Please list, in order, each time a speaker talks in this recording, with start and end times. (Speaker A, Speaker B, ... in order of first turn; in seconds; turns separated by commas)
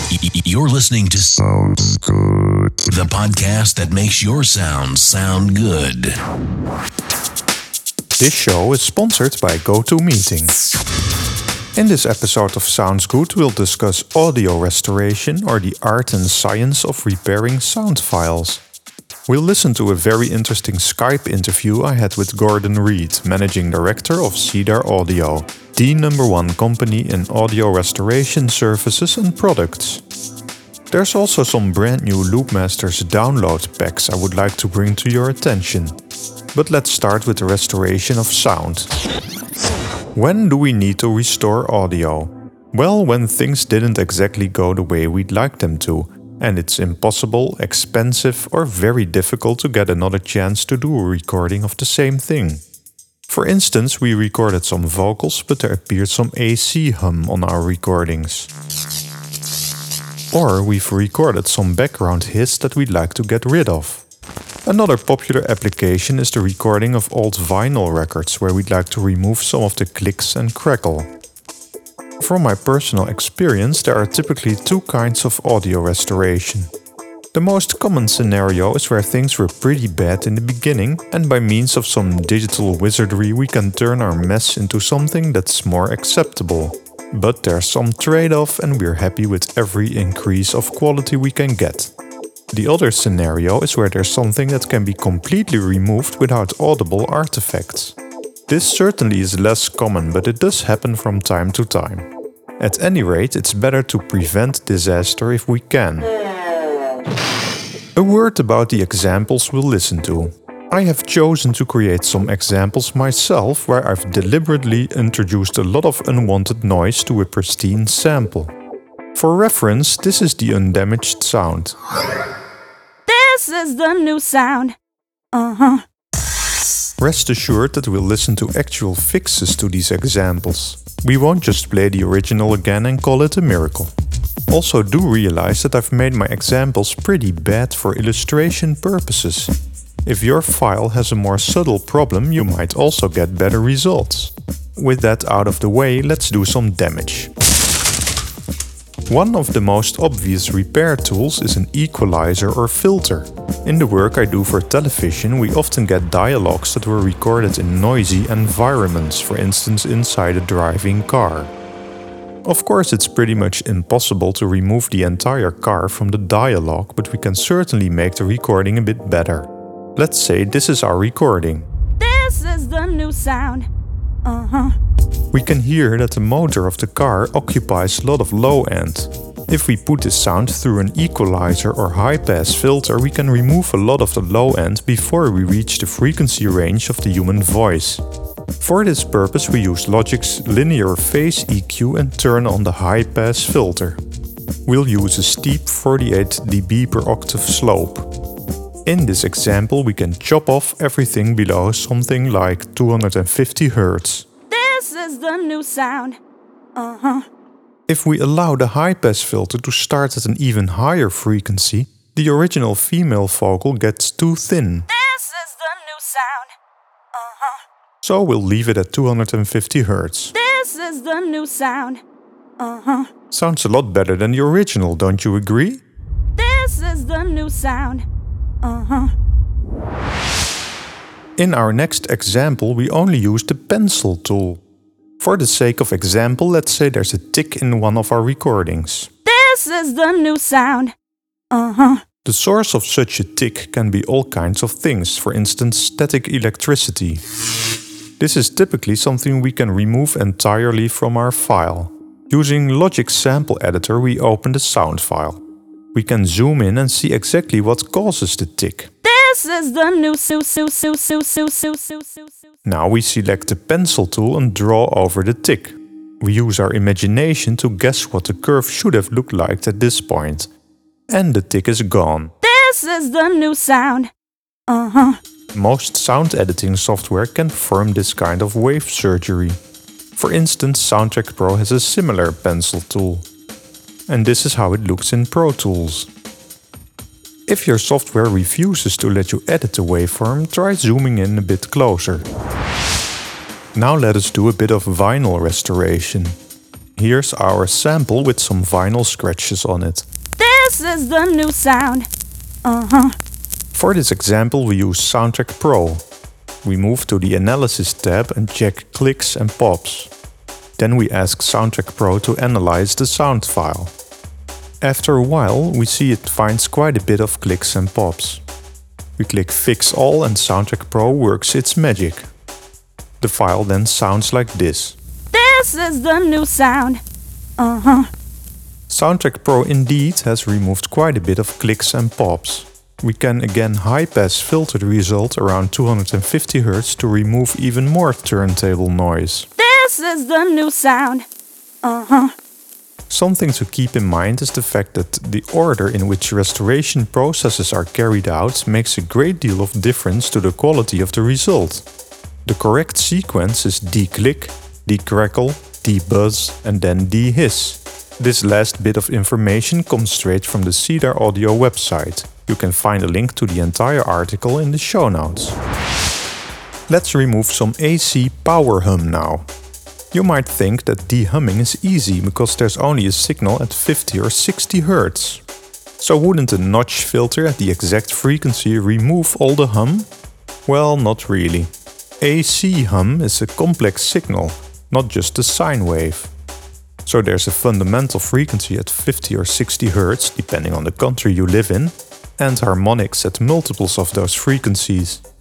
Speaker A: 0.1-1.4, Speaker A: 2.9-6.1, Speaker B: 8.2-10.6, Speaker B: 11.7-18.6, Speaker B: 19.3-30.0, Speaker B: 30.9-36.0, Speaker B: 36.5-38.9, Speaker B: 40.1-52.6, Speaker B: 53.3-58.5, Speaker B: 60.3-64.0, Speaker B: 64.6-71.1, Speaker B: 72.2-76.7, Speaker B: 77.3-91.9, Speaker B: 92.5-98.0, Speaker B: 98.5-106.1, Speaker B: 107.9-118.5, Speaker B: 119.1-121.8, Speaker C: 123.1-124.8, Speaker C: 125.3-125.8, Speaker B: 127.0-133.9, Speaker B: 134.5-147.3, Speaker B: 149.1-161.5, Speaker B: 162.4-171.7, Speaker C: 172.0-173.7, Speaker C: 174.2-174.8, Speaker B: 175.3-188.0, Speaker B: 188.6-194.0, Speaker B: 194.7-198.1, Speaker B: 198.8-204.2, Speaker C: 204.5-206.2, Speaker C: 206.8-207.3, Speaker B: 207.9-214.9, Speaker C: 214.9-216.5, Speaker C: 217.1-217.6, Speaker B: 218.0-220.3, Speaker C: 220.3-222.0, Speaker C: 222.6-223.1, Speaker B: 223.3-225.8, Speaker C: 226.4-228.0, Speaker C: 228.6-229.1, Speaker B: 231.4-234.6, Speaker B: 235.2-239.1, Speaker C: 239.2-240.9, Speaker C: 241.5-242.0, Speaker B: 242.2-247.2, Speaker B: 248.2-255.4, Speaker B: 255.9-258.9, Speaker C: 259.0-262.3, Speaker B: 262.6-270.5, Speaker B: 271.1-272.3, Speaker C: 272.4-274.1, Speaker C: 274.7-275.2, Speaker B: 275.5-279.6, Speaker B: 280.1-283.2, Speaker B: 284.1-286.1, Speaker B: 287.5-292.2, Speaker B: 293.7-296.4, Speaker B: 296.9-300.1, Speaker C: 300.4-302.1, Speaker C: 302.6-303.2, Speaker B: 303.7-306.0, Speaker B: 306.6-310.1, Speaker B: 310.8-313.9, Speaker B: 314.8-318.4, Speaker B: 319.2-322.3, Speaker B: 323.2-324.9, Speaker C: 325.3-327.0, Speaker C: 327.6-328.1, Speaker B: 328.9-339.5, Speaker C: 339.6-341.2, Speaker C: 341.8-342.3, Speaker B: 343.1-351.9, Speaker B: 352.4-365.6, Speaker B: 366.9-369.5, Speaker B: 370.1-375.4, Speaker B: 376.0-380.1, Speaker B: 380.6-386.3, Speaker B: 387.1-395.2